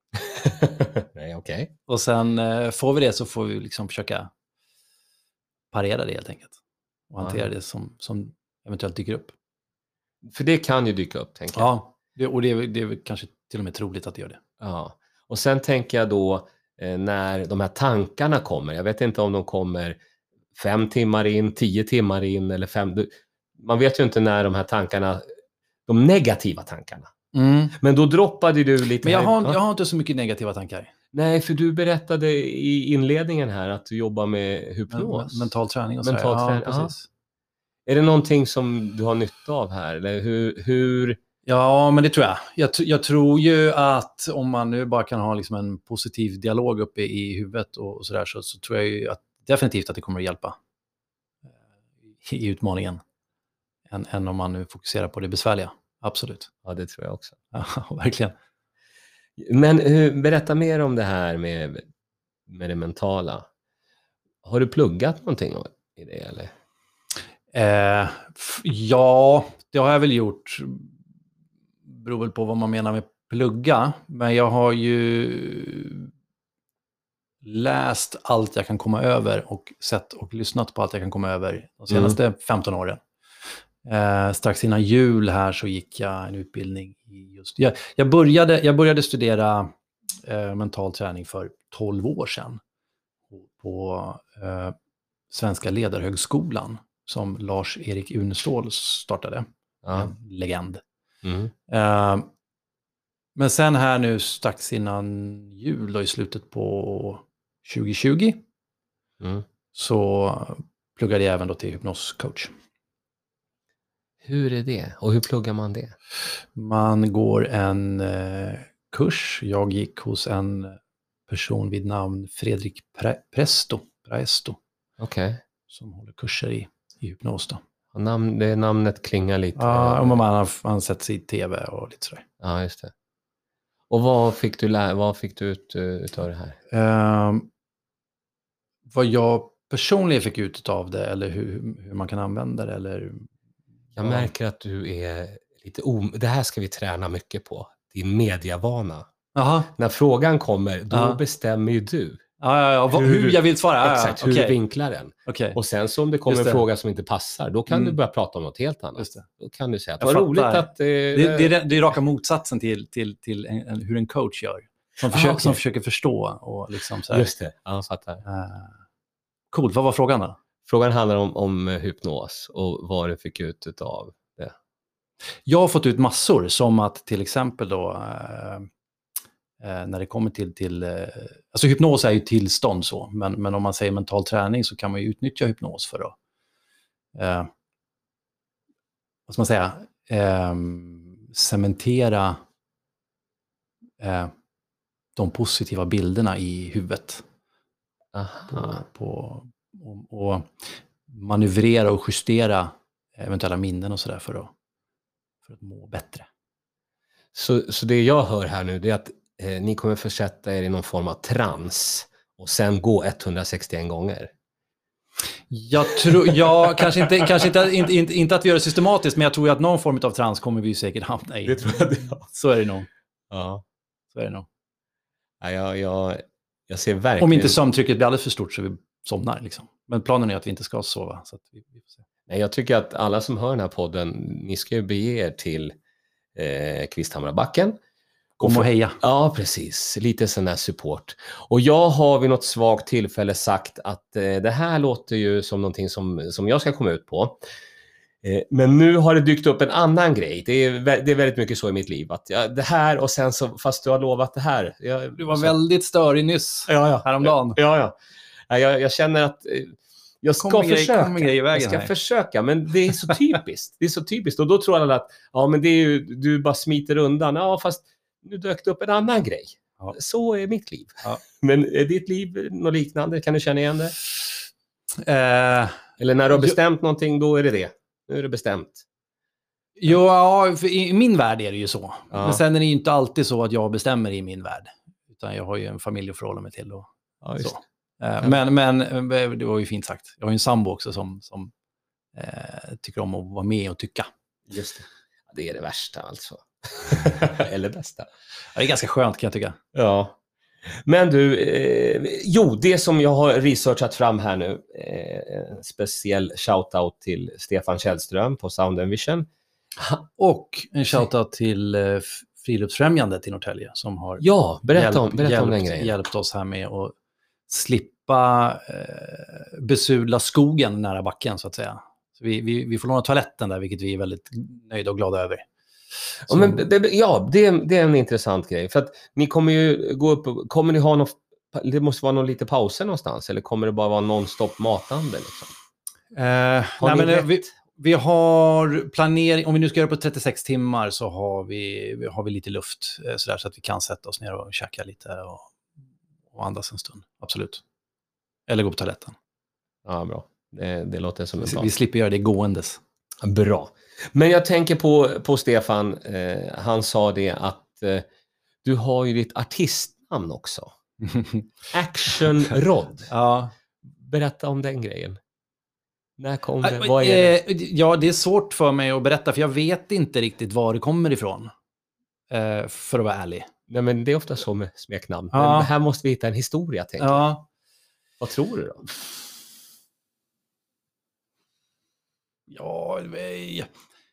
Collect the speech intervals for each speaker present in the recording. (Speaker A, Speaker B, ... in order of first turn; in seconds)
Speaker A: 0.3-1.7, 7.2-7.5, 10.2-11.7, 14.6-20.0, 20.5-25.2, 25.9-27.1, 27.8-29.6, 31.1-35.5, 36.0-36.9, 37.9-41.2, 56.6-57.4, 59.4-61.9, 62.5-63.5, 64.4-66.5, 81.9-82.2, 99.8-100.1, 101.2-101.5, 114.2-115.9, 125.0-125.4, 127.9-130.2, 132.4-132.9, 133.9-136.6, 144.0-149.1, 149.7-152.2, 152.9-161.5, 165.1-165.6, 167.1-168.2, 170.7-174.5, 198.1-198.8, 207.3-214.3, 221.4-222.3, 223.3-223.6, 225.4-227.6, 232.3-235.7, 236.3-237.8, 238.4-247.4, 248.2-255.5, 256.7-257.9, 258.5-273.9, 276.0-278.8, 282.1-282.4, 287.2-287.5, 294.5-298.1, 299.7-300.1, 300.9-309.3, 314.2-315.9, 326.3-335.5, 336.8-337.5, 349.8-351.7, 353.2-358.1, 358.6-360.7, 361.7-363.1, 364.0-365.2, 366.2-367.3, 373.7-377.2, 378.2-378.9
Speaker B: 1.9-4.3, 5.7-6.6, 7.1-9.3, 11.5-14.4, 27.3-27.8, 29.0-30.9, 34.9-37.0, 41.5-50.5, 52.2-53.0, 53.9-56.5, 57.5-58.3, 67.5-70.9, 71.8-76.1, 77.4-83.0, 83.8-92.6, 93.3-94.7, 95.3-100.8, 101.7-102.3, 103.3-108.4, 109.7-112.5, 116.5-120.8, 121.3-124.6, 125.7-127.6, 129.6-132.2, 136.7-137.5, 138.9-143.3, 144.0-144.3, 149.3-149.7, 150.9-151.2, 152.4-154.6, 155.2-155.6, 156.3-156.6, 157.7-157.9, 159.0-159.2, 160.0-167.2, 168.2-168.7, 169.5-170.4, 175.4-178.7, 179.6-186.2, 187.1-187.5, 189.3-192.4, 194.0-194.3, 195.2-197.2, 198.5-200.5, 201.1-204.5, 205.4-206.3, 215.5-222.9, 224.1-224.5, 227.2-232.0, 238.4-239.0, 255.2-257.6, 260.4-261.9, 274.9-275.8, 279.8-286.9, 287.4-291.5, 292.1-294.1, 298.5-299.6, 310.2-316.9, 317.5-325.5, 326.3-326.6, 336.1-345.5, 346.3-347.6, 348.5-349.1, 351.4-352.8, 361.0-361.5, 363.1-363.5, 366.6-371.5, 372.3-373.5, 375.3-375.7, 377.0-377.5, 382.5-383.7